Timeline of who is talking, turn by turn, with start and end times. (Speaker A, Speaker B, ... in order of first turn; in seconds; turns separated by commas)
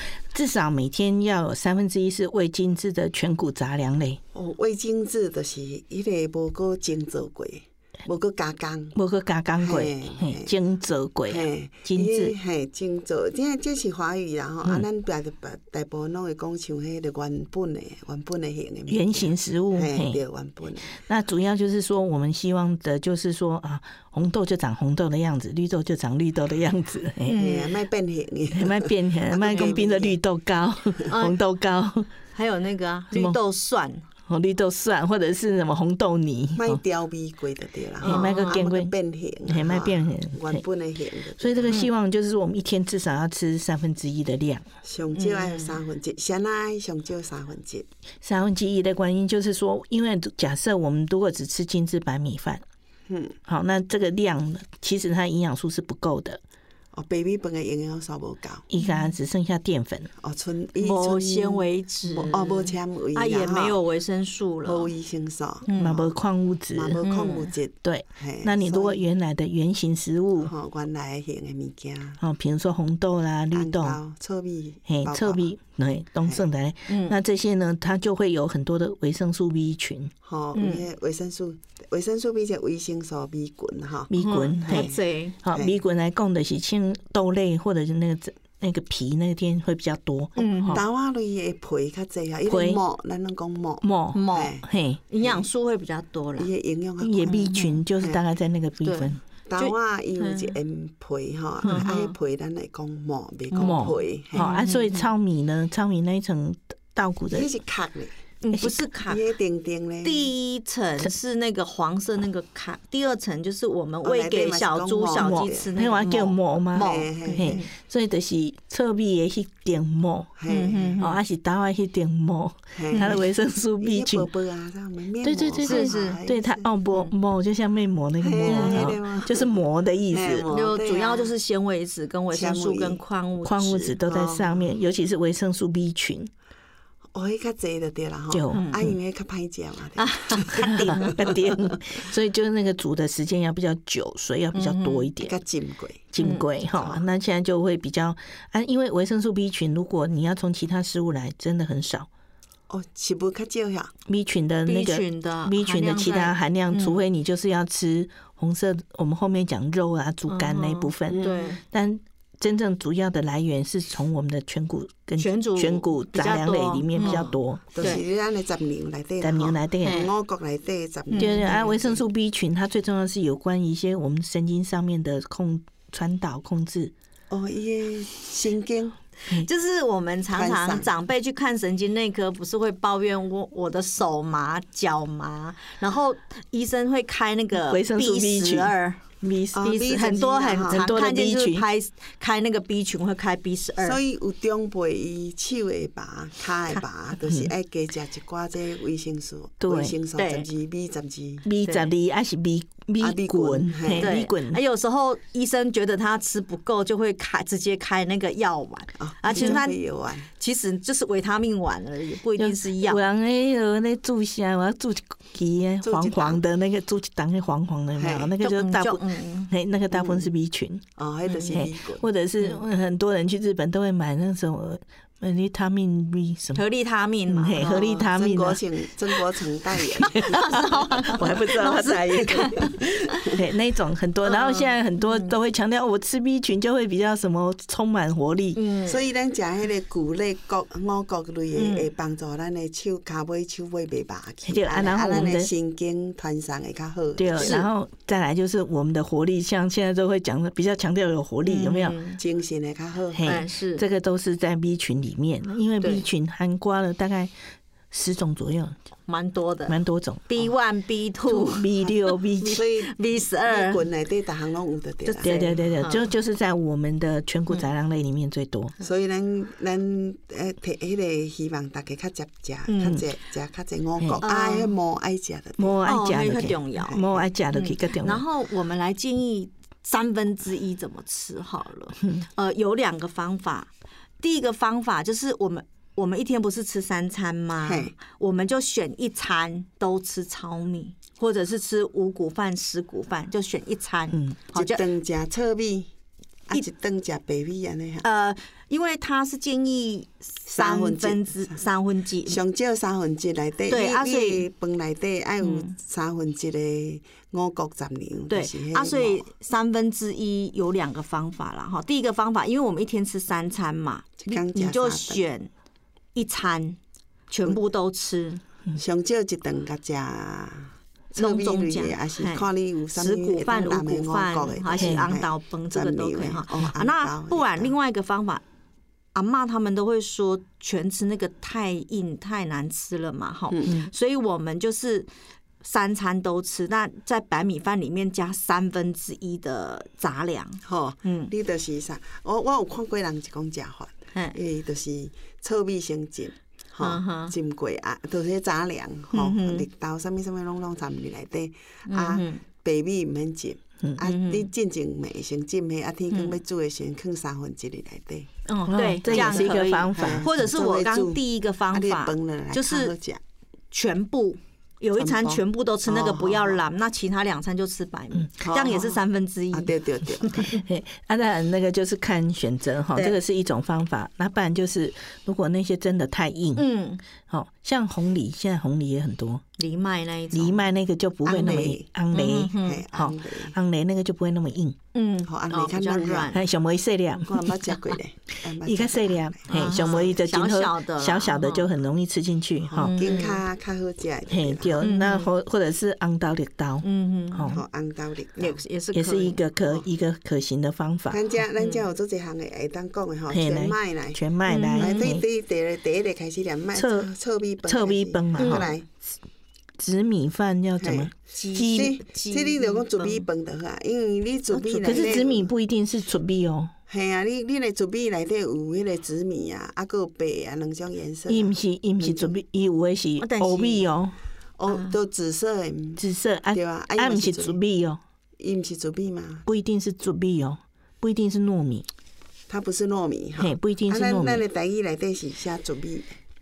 Speaker A: 0.3-4.2, Speaker B: 4.3-9.0, Speaker A: 9.0-12.3, Speaker B: 9.6-10.5, Speaker B: 11.3-21.0, Speaker A: 18.9-20.2, Speaker A: 21.0-27.4, Speaker C: 27.3-27.7, Speaker B: 27.4-30.2, Speaker A: 28.5-32.1, Speaker C: 31.1-31.4, Speaker C: 32.3-34.0, Speaker A: 34.3-36.8, Speaker B: 36.6-41.8, Speaker C: 38.0-38.6, Speaker A: 38.0-38.9, Speaker A: 39.5-40.6, Speaker A: 41.4-44.7, Speaker B: 44.8-47.9, Speaker C: 45.1-45.8, Speaker A: 48.2-52.6, Speaker B: 53.1-53.4, Speaker A: 53.5-56.4, Speaker B: 56.9-58.6, Speaker A: 58.7-60.1, Speaker C: 58.8-59.1, Speaker B: 60.2-63.8, Speaker C: 60.8-64.9, Speaker B: 64.7-66.0, Speaker C: 65.7-66.0, Speaker A: 65.8-67.0, Speaker B: 66.7-69.0, Speaker C: 67.0-67.5, Speaker A: 67.8-70.5, Speaker B: 70.4-72.2, Speaker A: 72.2-74.0, Speaker B: 73.5-75.5, Speaker A: 74.9-80.1, Speaker C: 76.9-77.2, Speaker B: 80.2-85.8, Speaker C: 80.5-80.8, Speaker A: 84.1-84.9, Speaker C: 84.2-85.4, Speaker A: 85.4-90.8, Speaker C: 90.4-90.8, Speaker B: 90.7-94.7, Speaker A: 92.5-92.8, Speaker A: 93.8-95.0, Speaker C: 94.1-96.5, Speaker B: 96.4-98.2, Speaker A: 97.0-99.2, Speaker C: 97.2-97.8, Speaker C: 98.8-100.5, Speaker B: 99.5-104.6, Speaker C: 101.6-102.2, Speaker A: 103.6-107.5, Speaker C: 104.3-105.1, Speaker B: 107.3-108.2, Speaker C: 108.4-109.2, Speaker B: 109.1-110.3, Speaker C: 110.0-117.7, Speaker B: 114.0-115.7, Speaker A: 115.2-120.3, Speaker B: 116.8-117.6, Speaker B: 120.4-121.0, Speaker C: 120.5-121.2, Speaker A: 121.0-124.3, Speaker B: 122.8-123.2, Speaker C: 122.9-123.2, Speaker B: 123.8-126.7, Speaker A: 125.2-130.5, Speaker C: 125.6-126.2, Speaker B: 128.2-129.5, Speaker C: 128.5-128.9, Speaker B: 130.1-131.3, Speaker C: 130.5-134.0, Speaker B: 132.3-133.0, Speaker A: 133.4-136.3, Speaker B: 134.1-134.6, Speaker B: 137.1-141.5, Speaker A: 138.3-138.9, Speaker C: 138.5-138.9, Speaker C: 140.0-141.3, Speaker A: 140.6-145.3, Speaker C: 144.5-145.1, Speaker B: 145.2-146.2, Speaker A: 146.1-152.1, Speaker C: 146.2-146.5, Speaker B: 146.7-147.0, Speaker B: 152.7-153.9, Speaker A: 154.1-168.0, Speaker C: 154.7-157.0, Speaker C: 160.3-161.6, Speaker B: 161.1-161.5, Speaker C: 165.2-168.0, Speaker B: 167.0-172.0, Speaker A: 169.2-170.0, Speaker C: 169.8-170.1, Speaker C: 171.1-171.6, Speaker A: 171.2-176.9, Speaker B: 177.3-179.0, Speaker C: 179.3-189.0, Speaker B: 180.3-180.9, Speaker A: 187.6-189.8, Speaker B: 189.5-190.9, Speaker C: 189.6-194.0, Speaker A: 190.7-191.7, Speaker B: 193.8-201.5, Speaker A: 197.2-197.5, Speaker A: 199.6-199.9, Speaker C: 200.2-200.5, Speaker A: 201.4-204.6, Speaker C: 201.6-201.9, Speaker B: 203.0-204.2, Speaker C: 204.0-209.8, Speaker B: 209.0-210.3, Speaker A: 209.3-209.6, Speaker C: 210.4-213.0, Speaker A: 212.4-220.8, Speaker B: 215.8-216.4, Speaker B: 218.0-218.3, Speaker C: 218.4-219.5, Speaker B: 219.9-220.3, Speaker B: 221.0-222.1, Speaker C: 221.3-221.6, Speaker A: 221.5-226.6, Speaker C: 226.6-228.1, Speaker A: 227.3-228.6, Speaker B: 227.8-233.3, Speaker A: 229.8-232.5, Speaker C: 230.1-233.3, Speaker A: 233.3-238.6, Speaker C: 234.2-235.3, Speaker C: 238.6-239.0, Speaker B: 238.9-247.6, Speaker C: 241.6-241.9, Speaker A: 244.5-245.5, Speaker A: 247.2-252.0, Speaker C: 247.4-247.7, Speaker C: 251.4-252.2, Speaker B: 252.2-253.4, Speaker A: 253.1-257.3, Speaker C: 253.3-253.8, Speaker A: 257.9-258.8, Speaker C: 259.1-263.9, Speaker A: 259.7-260.4, Speaker A: 261.3-262.6, Speaker B: 262.5-262.9, Speaker B: 263.4-265.4, Speaker C: 265.1-266.1, Speaker A: 265.2-268.7, Speaker B: 268.8-275.8, Speaker C: 272.7-273.0, Speaker C: 274.2-274.7, Speaker A: 275.6-278.2, Speaker C: 275.9-294.8, Speaker B: 287.6-287.9, Speaker B: 294.5-295.9, Speaker B: 296.5-298.1, Speaker C: 298.0-302.4, Speaker B: 300.5-301.6, Speaker B: 302.3-309.3, Speaker C: 303.7-304.5, Speaker C: 305.4-305.8, Speaker C: 308.3-315.5, Speaker B: 314.2-315.2, Speaker C: 316.1-316.8, Speaker C: 317.3-318.4, Speaker B: 318.8-327.7, Speaker C: 321.1-328.4, Speaker A: 324.8-325.0, Speaker C: 329.1-335.1, Speaker B: 333.5-333.8, Speaker C: 335.6-341.3, Speaker B: 340.6-358.3, Speaker C: 346.8-347.3, Speaker C: 349.1-349.7, Speaker C: 351.9-352.4, Speaker C: 354.0-354.5, Speaker C: 356.1-356.4, Speaker C: 358.5-362.9, Speaker A: 358.7-360.3, Speaker B: 359.1-363.2, Speaker C: 363.7-370.6, Speaker B: 365.0-366.6, Speaker B: 368.4-369.0, Speaker B: 369.5-370.6, Speaker A: 370.6-376.6, Speaker C: 376.6-377.0, Speaker A: 377.3-379.4, Speaker C: 379.6-380.6, Speaker A: 380.3-384.8, Speaker B: 381.2-381.9, Speaker C: 382.1-382.8, Speaker B: 382.6-383.6, Speaker C: 384.9-386.4, Speaker B: 385.3-386.3, Speaker A: 386.3-387.5, Speaker B: 387.2-390.0, Speaker A: 388.6-393.0, Speaker C: 389.5-391.7, Speaker B: 392.7-394.8, Speaker C: 392.8-393.4, Speaker A: 394.3-397.6, Speaker C: 394.8-395.3, Speaker C: 396.8-397.5, Speaker B: 397.5-398.6, Speaker C: 398.4-399.4, Speaker A: 398.9-401.3, Speaker B: 401.1-404.2, Speaker C: 401.6-401.8, Speaker A: 403.3-405.2, Speaker C: 404.5-405.2, Speaker B: 404.8-408.9, Speaker A: 406.8-407.1, Speaker A: 407.6-408.7, Speaker C: 408.4-408.6, Speaker A: 409.8-412.0, Speaker B: 410.8-415.5, Speaker C: 411.3-413.3, Speaker C: 414.5-415.1, Speaker A: 414.8-416.7, Speaker B: 416.9-422.4, Speaker A: 421.3-424.1, Speaker C: 423.2-423.9, Speaker B: 424.6-427.6, Speaker C: 424.7-424.9, Speaker A: 426.0-428.0, Speaker B: 428.4-429.4, Speaker A: 429.5-431.9, Speaker B: 432.5-436.1, Speaker A: 433.4-434.4